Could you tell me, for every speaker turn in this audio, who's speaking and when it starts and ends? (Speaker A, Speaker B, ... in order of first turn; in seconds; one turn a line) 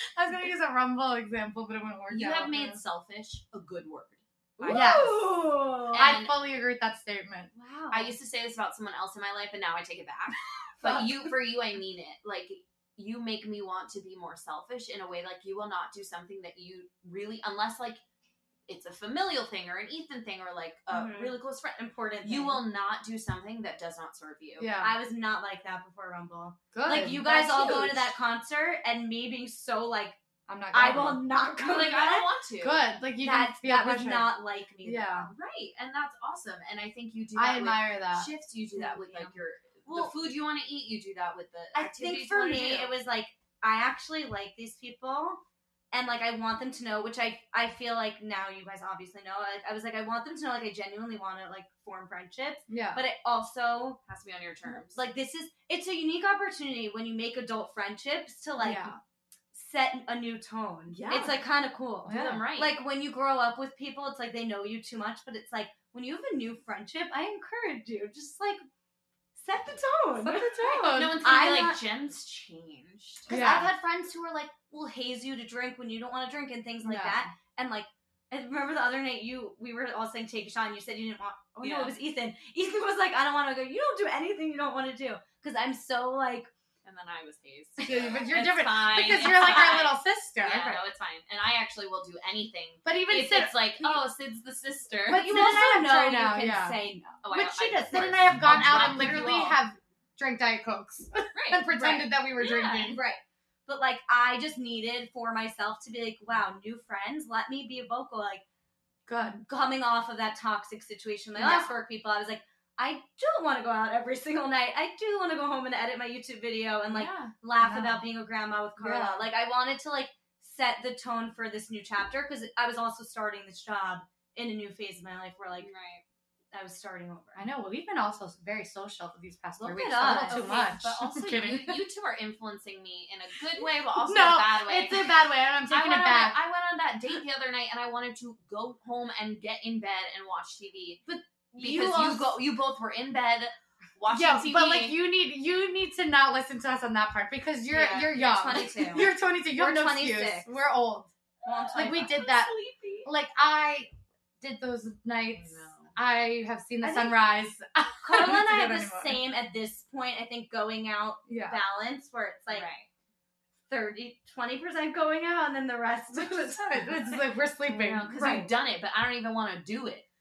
Speaker A: 0.1-2.8
Speaker B: 2.1-5.2
Speaker C: 4.6-6.1
Speaker A: 4.7-5.3
Speaker B: 5.9-6.3
Speaker A: 5.9-7.5
Speaker C: 7.5-8.2
Speaker B: 7.9-18.0
Speaker B: 18.7-24.7
Speaker C: 20.9-22.6
Speaker A: 24.6-24.9
Speaker C: 24.8-30.2
Speaker A: 26.7-27.9
Speaker B: 27.1-28.0
Speaker A: 30.5-31.2
Speaker C: 30.7-32.3
Speaker B: 31.6-32.9
Speaker A: 32.6-35.3
Speaker C: 33.2-35.3
Speaker B: 35.3-43.0
Speaker A: 37.4-38.3
Speaker C: 38.8-39.3
Speaker C: 41.7-54.0
Speaker A: 52.7-53.0
Speaker B: 54.1-55.0
Speaker C: 54.9-59.0
Speaker A: 58.6-59.0
Speaker C: 59.5-68.6
Speaker B: 60.9-61.4
Speaker B: 62.0-62.8
Speaker C: 69.3-71.8
Speaker A: 70.2-71.2
Speaker B: 70.9-73.4
Speaker C: 73.3-86.5
Speaker A: 73.3-73.7
Speaker A: 76.8-77.3
Speaker B: 81.6-82.0
Speaker B: 86.8-95.3
Speaker A: 87.8-90.8
Speaker A: 92.8-93.9
Speaker A: 95.1-103.0
Speaker C: 95.1-97.2
Speaker B: 97.2-99.6
Speaker B: 101.3-103.0
Speaker C: 102.8-108.4
Speaker A: 109.1-109.4
Speaker C: 109.5-125.7
Speaker A: 111.4-111.7
Speaker B: 116.9-117.3
Speaker A: 117.6-118.1
Speaker A: 118.8-119.2
Speaker B: 125.6-126.0
Speaker C: 126.5-127.5
Speaker A: 127.4-131.8
Speaker C: 129.6-130.5
Speaker B: 130.1-135.2
Speaker A: 133.6-136.4
Speaker B: 135.7-141.0
Speaker C: 141.1-142.4
Speaker B: 141.6-145.0
Speaker A: 144.1-151.1
Speaker C: 147.7-150.5
Speaker C: 151.4-153.1
Speaker B: 151.5-152.2
Speaker A: 151.8-159.2
Speaker B: 155.3-156.0
Speaker C: 156.8-157.2
Speaker C: 158.0-162.7
Speaker A: 161.3-161.6
Speaker B: 162.5-162.9
Speaker C: 163.7-167.2
Speaker A: 166.1-168.5
Speaker B: 167.7-170.1
Speaker C: 168.1-168.5